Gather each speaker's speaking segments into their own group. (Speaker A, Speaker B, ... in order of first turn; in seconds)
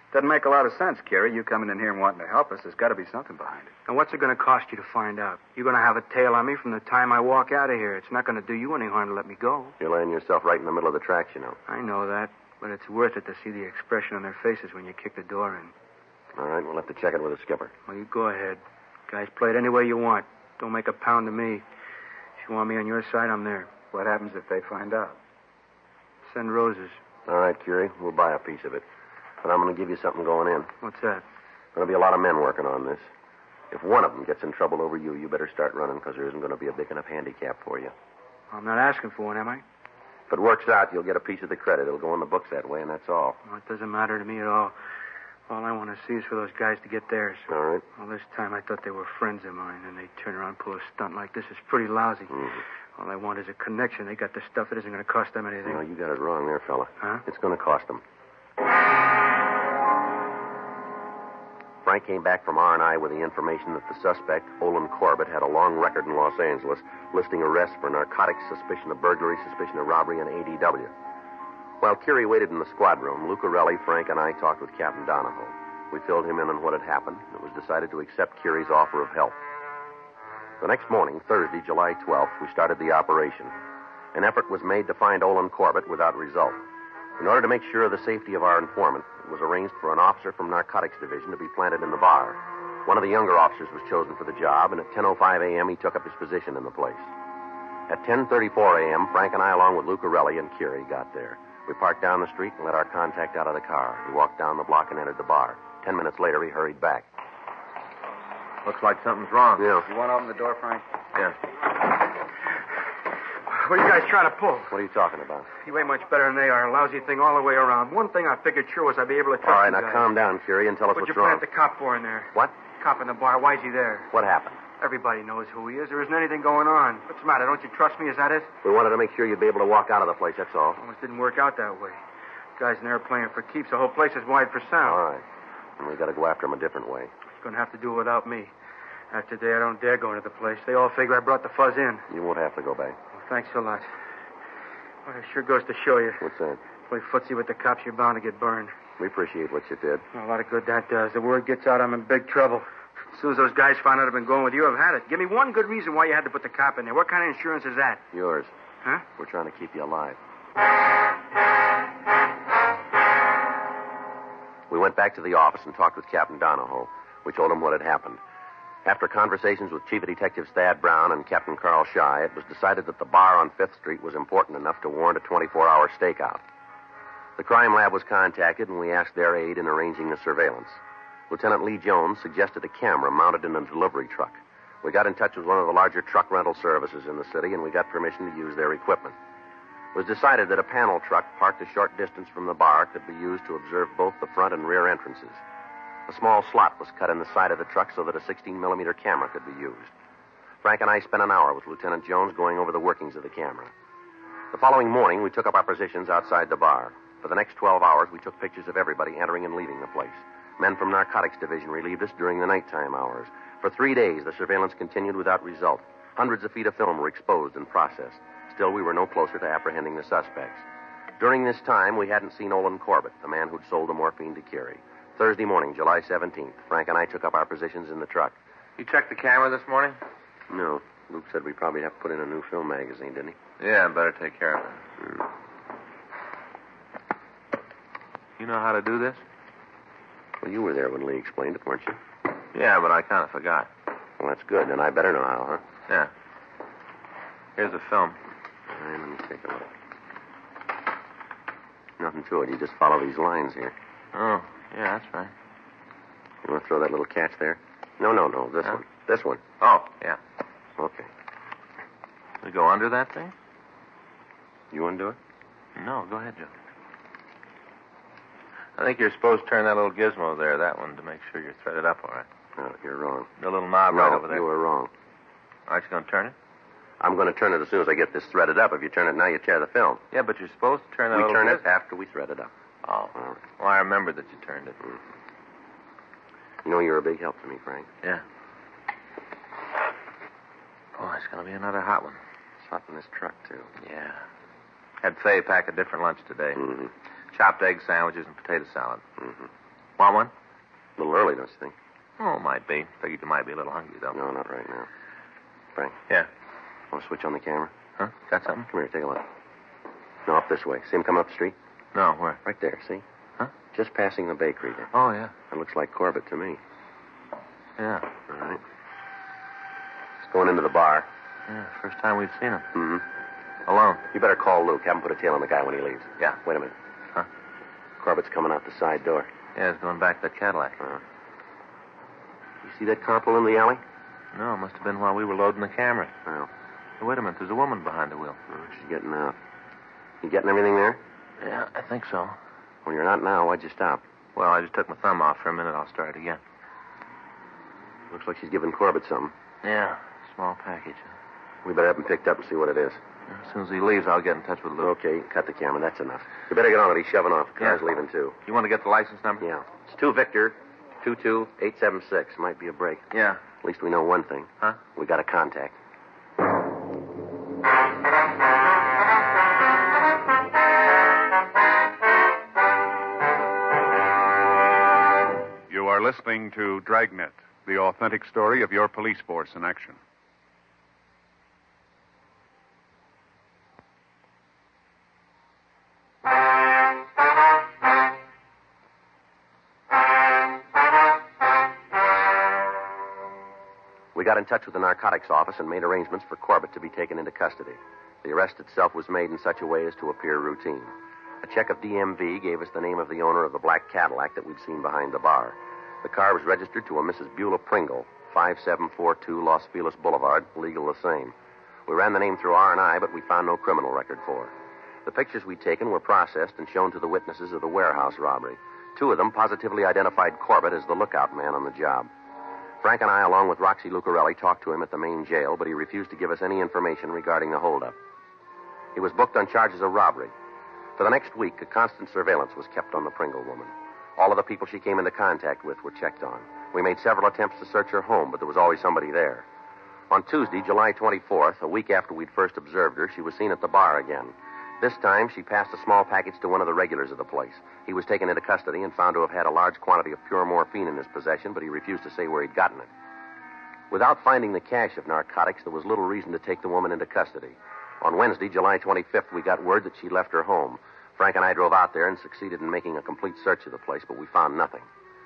Speaker A: 0.1-3.7, 23.9-25.2, 109.8-110.8
Speaker B: 3.9-9.8, 11.7-15.7, 17.9-21.6, 22.4-23.7, 26.3-27.0, 30.8-31.2, 38.5-39.6, 43.5-44.7, 45.5-55.8, 113.5-114.8, 115.6-120.1, 120.9-124.1, 124.8-128.5, 130.8-132.0, 132.6-135.0, 137.4-138.5, 139.1-142.1, 143.1-143.9, 145.1-146.3, 146.9-148.7, 150.1-158.0
Speaker C: 9.8-11.6, 16.4-17.7, 27.3-28.9, 29.4-30.7, 31.8-33.1, 33.7-37.9, 40.3-43.4, 47.5-47.9, 55.7-58.0, 61.8-70.9, 71.8-79.4, 80.6-83.5, 84.1-86.6, 87.2-97.1, 97.9-107.1, 109.6-109.9, 114.7-115.5, 119.4-121.4, 124.1-124.6, 128.6-130.8, 134.8-135.2, 135.8-137.1, 142.1-143.0, 146.2-146.6, 149.0-150.0, 158.1-158.5, 159.2-160.2, 164.7-168.2, 168.8-176.4, 177.4-189.2, 189.9-195.4, 196.1-199.9, 200.6-203.7, 204.5-220.6, 221.2-228.3, 230.5-233.4, 240.4-242.0, 244.2-245.6, 248.7-249.7, 252.0-253.8, 256.4-259.4, 260.8-261.1, 264.7-265.2, 272.6-273.3, 273.9-274.9, 277.0-280.0, 281.1-282.5, 286.6-287.9, 292.6-293.7, 296.6-296.9, 299.2-299.5, 301.0-301.8, 304.1-304.9, 306.9-307.7, 308.7-309.3, 310.3-311.6, 312.4-313.0, 313.7-314.9, 315.5-316.6, 318.3-318.6, 320.2-321.1, 322.7-323.1, 324.1-326.7, 328.0-329.3, 332.6-333.8, 338.5-339.4, 340.2-341.0, 342.9-344.0, 348.1-349.4, 351.6-353.0, 354.8-358.4, 359.4-363.1, 363.6-365.8, 394.1-411.4, 411.9-414.5, 415.1-422.1, 422.8-428.0, 428.9-430.3, 431.0-439.5, 440.1-452.9, 453.9-464.9
Speaker D: 108.7-109.7, 228.8-230.0, 233.6-234.8, 238.4-239.2, 242.5-243.7, 247.6-248.2, 254.1-255.3, 259.6-260.2, 262.4-263.3, 265.8-266.5, 268.8-272.3, 273.4-274.4, 275.7-276.4, 280.1-281.6, 282.9-284.8, 291.0-292.2, 293.8-294.2, 295.0-296.8, 297.3-299.0, 300.0-300.3, 302.2-304.2, 308.0-308.7, 311.9-312.4, 314.9-315.3, 317.8-318.1, 321.5-322.7, 323.7-324.0, 329.6-330.8, 334.3-336.1, 337.0-338.4, 341.4-342.4, 344.4-346.4, 349.6-351.1, 353.3-354.9, 358.5-359.5, 363.1-363.4
Speaker E: 375.7-380.0